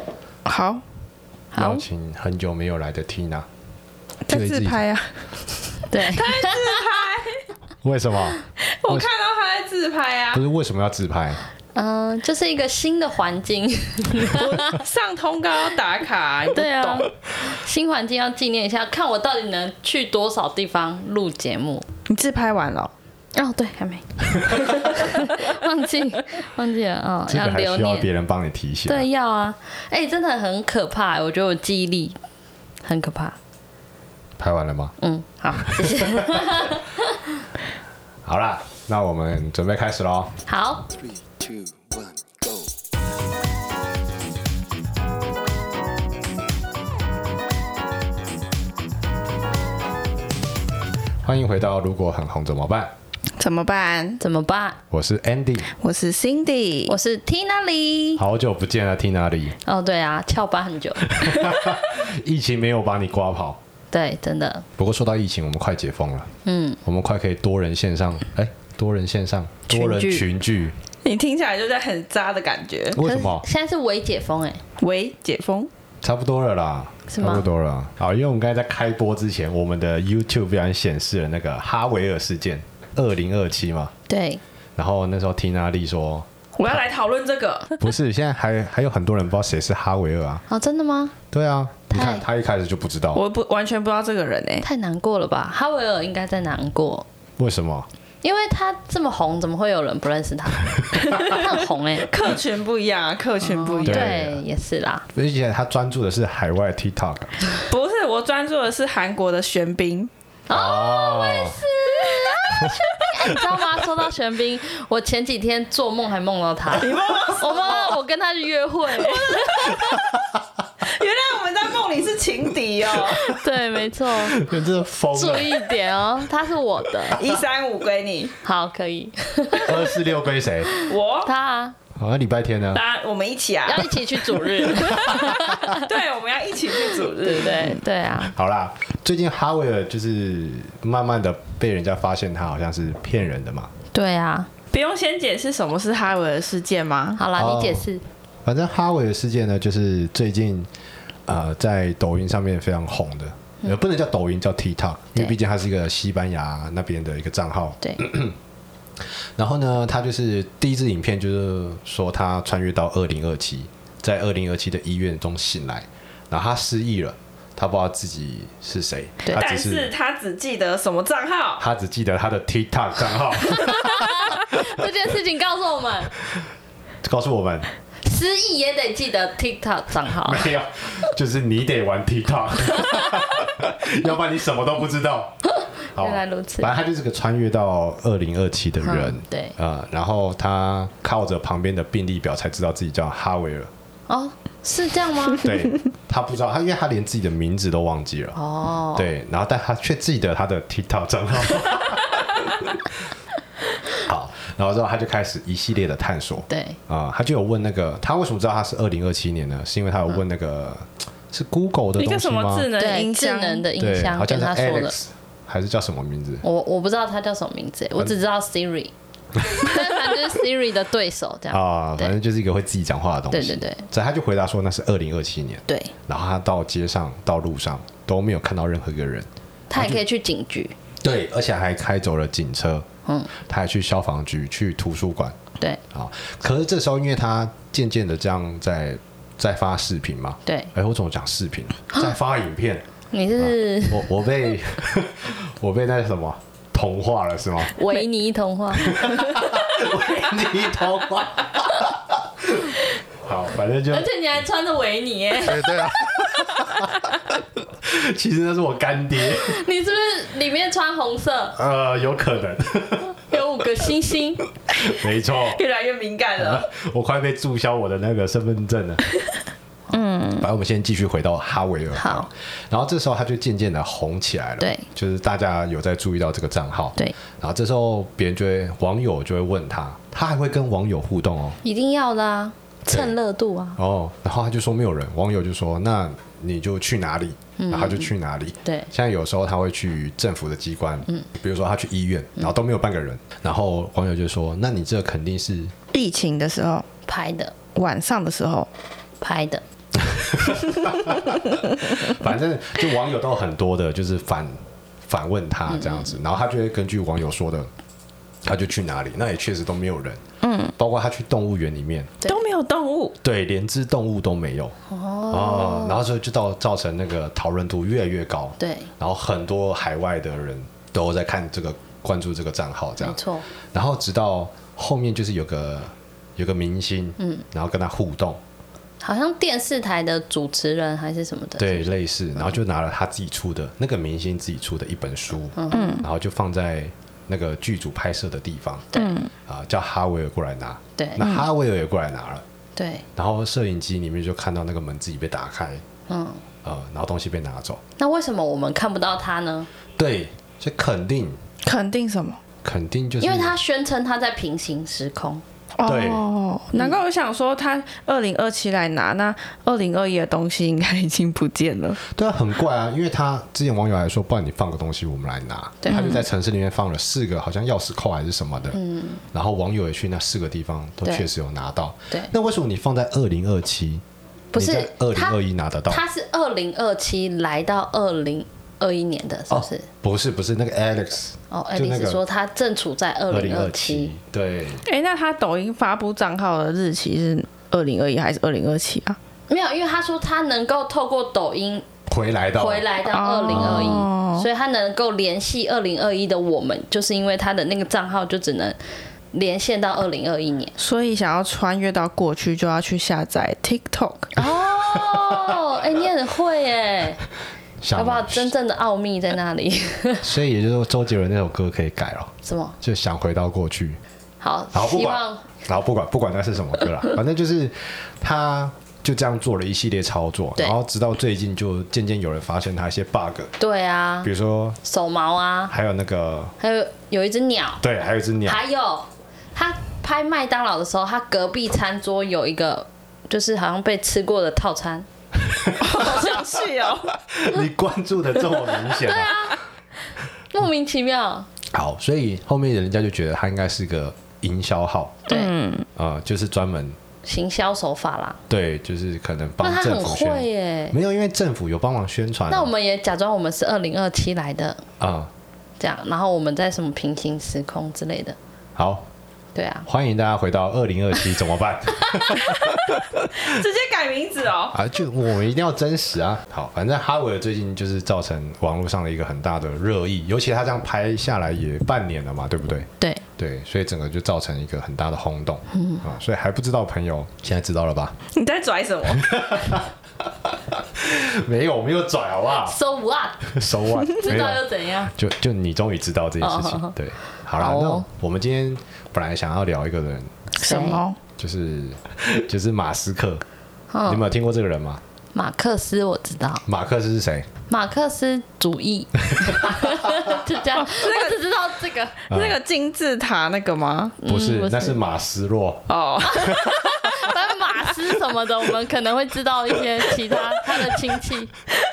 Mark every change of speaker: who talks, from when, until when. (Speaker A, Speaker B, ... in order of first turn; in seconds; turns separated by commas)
Speaker A: 0.5-0.8, Speaker B: 1.5-1.8, Speaker C: 1.6-3.5, Speaker A: 4.3-7.5, Speaker C: 4.3-4.8, Speaker B: 5.9-6.8, Speaker C: 7.8-9.1, Speaker A: 8.6-10.4, Speaker C: 10.3-11.4, Speaker B: 11.8-14.8, Speaker A: 14.2-17.1, Speaker B: 16.5-21.9, Speaker A: 22.1-22.9, Speaker B: 23.4-28.1, Speaker C: 27.3-29.1, Speaker B: 28.9-32.2, Speaker B: 32.8-33.4, Speaker C: 34.4-34.9, Speaker B: 35.0-37.2, Speaker C: 35.8-36.4, Speaker C: 38.3-40.3, Speaker B: 40.5-40.9, Speaker C: 51.2-52.9, Speaker A: 53.4-54.2, Speaker B: 54.2-54.8, Speaker C: 54.9-55.7, Speaker A: 55.8-57.0, Speaker B: 56.9-58.2, Speaker C: 58.2-59.6, Speaker B: 59.7-61.5, Speaker C: 61.0-63.6, Speaker B: 63.9-64.7, Speaker C: 64.8-66.3, Speaker B: 66.5-66.8, Speaker C: 66.8-70.8, Speaker B: 69.7-70.2, Speaker A: 71.0-73.0, Speaker C: 72.9-73.5, Speaker B: 73.0-74.6, Speaker A: 74.8-75.7, Speaker C: 76.0-83.9, Speaker B: 77.1-77.5, Speaker B: 84.1-84.4, Speaker C: 84.8-86.3, Speaker A: 86.5-87.8, Speaker C: 87.8-90.4, Speaker B: 90.5-91.2, Speaker C: 91.3-93.2, Speaker B: 91.9-92.2, Speaker A: 93.1-94.7, Speaker B: 94.6-97.1, Speaker C: 97.4-97.9, Speaker B: 98.2-102.1, Speaker C: 100.9-101.4, Speaker A: 102.1-104.2, Speaker B: 103.4-105.1, Speaker C: 103.8-104.4, Speaker C: 105.1-107.3, Speaker A: 107.7-110.1, Speaker B: 110.5-119.8, Speaker C: 110.5-111.6, Speaker A: 116.8-118.0, Speaker A: 118.9-120.0, Speaker C: 119.8-120.4, Speaker A: 120.8-123.3, Speaker C: 123.2-123.4, Speaker B: 123.3-124.4, Speaker C: 124.2-125.6, Speaker B: 125.1-127.2, Speaker A: 127.2-128.3, Speaker B: 128.4-129.9, Speaker C: 129.6-130.7, Speaker B: 130.7-131.8, Speaker A: 130.9-131.3, Speaker C: 132.0-132.8, Speaker A: 132.7-137.8, Speaker B: 133.7-135.9, Speaker C: 134.9-135.7, Speaker B: 136.9-138.3, Speaker C: 138.3-143.7, Speaker B: 143.9-144.5, Speaker A: 144.7-147.2, Speaker B: 147.2-148.0, Speaker C: 147.4-147.9, Speaker C: 148.4-150.7, Speaker C: 151.3-158.4, Speaker C: 159.4-169.9, Speaker A: 169.3-171.6, Speaker C: 171.6-174.6, Speaker B: 173.6-176.1, Speaker C: 177.0-177.7, Speaker B: 178.0-180.5, Speaker C: 180.2-185.4, Speaker C: 185.9-193.7, Speaker B: 185.9-186.7, Speaker B: 188.8-189.6, Speaker B: 194.1-195.5, Speaker C: 195.4-198.4, Speaker B: 198.3-199.1, Speaker C: 198.9-202.8, Speaker C: 204.1-212.7, Speaker B: 206.5-206.8, Speaker A: 212.0-213.7, Speaker B: 212.8-214.9, Speaker C: 213.8-216.4, Speaker B: 216.4-222.1, Speaker C: 221.5-230.0, Speaker B: 223.3-223.8, Speaker B: 229.7-230.8, Speaker C: 231.0-232.9, Speaker C: 233.4-235.4, Speaker C: 235.9-242.8, Speaker B: 240.5-240.7, Speaker B: 243.1-244.1, Speaker C: 243.4-247.7, Speaker B: 247.8-249.1, Speaker C: 248.8-252.0, Speaker C: 252.5-254.1, Speaker B: 253.9-256.2, Speaker C: 255.4-257.1, Speaker C: 257.8-259.6, Speaker B: 259.3-261.6, Speaker C: 261.6-263.2, Speaker B: 263.3-264.4, Speaker C: 264.7-265.6, Speaker A: 265.3-266.7, Speaker C: 266.4-269.0, Speaker A: 269.9-270.4, Speaker C: 270.4-281.6, Speaker B: 271.9-272.3, Speaker B: 274.6-274.9, Speaker B: 281.6-283.8, Speaker C: 283.8-295.7, Speaker B: 287.6-288.1, Speaker A: 295.9-296.9, Speaker B: 297.1-297.5, Speaker A: 297.8-298.7, Speaker B: 299.2-299.6, Speaker C: 300.0-307.7, Speaker B: 305.7-306.1, Speaker C: 308.4-310.2, Speaker A: 310.4-310.8, Speaker C: 310.8-312.1, Speaker A: 312.2-313.2, Speaker C: 313.2-314.7, Speaker B: 314.9-316.0, Speaker C: 315.3-323.2, Speaker B: 318.6-318.9, Speaker B: 323.0-323.5, Speaker C: 323.7-328.4, Speaker B: 329.0-331.9, Speaker C: 331.6-338.9, Speaker B: 335.6-336.0, Speaker A: 335.7-336.1, Speaker B: 338.9-339.2, Speaker A: 338.9-339.3, Speaker C: 339.5-342.4, Speaker B: 341.0-341.2, Speaker A: 341.2-341.5, Speaker B: 342.8-343.1, Speaker C: 343.2-345.8, Speaker B: 346.1-346.4, Speaker C: 346.6-347.8, Speaker B: 348.0-349.7, Speaker C: 350.0-351.4, Speaker A: 351.6-352.4, Speaker C: 352.6-353.6, Speaker B: 353.2-355.4, Speaker A: 355.8-362.0, Speaker C: 355.8-356.2, Speaker C: 362.1-368.8, Speaker B: 365.8-366.2, Speaker A: 365.9-366.2, Speaker B: 368.7-369.2, Speaker C: 369.3-374.0, Speaker B: 374.5-375.4, Speaker C: 374.6-376.0, Speaker B: 375.9-379.9, Speaker C: 379.5-382.2, Speaker B: 381.5-384.1, Speaker C: 383.3-384.8, Speaker A: 384.9-389.2, Speaker B: 389.5-391.9, Speaker C: 392.1-392.9, Speaker B: 392.6-398.8, Speaker A: 393.1-394.5, Speaker C: 393.5-394.1, Speaker B: 399.3-400.8, Speaker A: 400.8-404.4, Speaker B: 404.4-407.2, Speaker C: 404.9-405.6, Speaker C: 407.8-408.5, Speaker B: 407.9-410.3, Speaker C: 410.2-414.0, Speaker B: 412.4-412.8, Speaker B: 414.4-415.5, Speaker C: 414.7-423.5, Speaker B: 423.6-424.3, Speaker C: 424.2-424.8, Speaker B: 424.8-425.7, Speaker C: 425.7-426.5, Speaker B: 426.6-427.8, Speaker C: 427.8-428.6, Speaker B: 428.4-435.1, Speaker C: 435.4-436.3, Speaker A: 435.8-437.1, Speaker C: 437.3-439.5, Speaker B: 439.1-439.6, Speaker B: 440.5-441.5, Speaker C: 441.7-445.2, Speaker B: 445.3-445.5, Speaker A: 445.3-445.9, Speaker C: 446.0-447.0, Speaker B: 447.2-448.4, Speaker C: 448.5-452.7, Speaker B: 449.6-450.9, Speaker B: 452.5-454.9, Speaker C: 455.0-455.3, Speaker B: 455.8-458.4, Speaker C: 458.8-459.1, Speaker B: 459.6-459.9, Speaker C: 459.9-463.3, Speaker A: 463.3-464.8, Speaker C: 464.7-478.1, Speaker B: 475.8-476.0, Speaker A: 478.3-479.5, Speaker C: 479.2-479.9, Speaker C: 480.5-482.8, Speaker B: 482.7-485.1, Speaker C: 483.4-490.3, Speaker B: 486.4-486.9, Speaker B: 487.6-488.1, Speaker B: 490.5-491.0, Speaker A: 490.6-491.2, Speaker C: 491.4-493.4, Speaker B: 493.9-494.2, Speaker C: 494.1-495.0, Speaker B: 495.3-496.6, Speaker C: 496.6-497.5, Speaker B: 497.7-502.1, Speaker C: 499.4-499.9, Speaker A: 500.7-501.5, Speaker A: 502.1-504.2, Speaker C: 502.3-502.6, Speaker B: 504.2-505.0, Speaker C: 504.3-506.8, Speaker A: 505.9-507.2, Speaker B: 506.2-511.6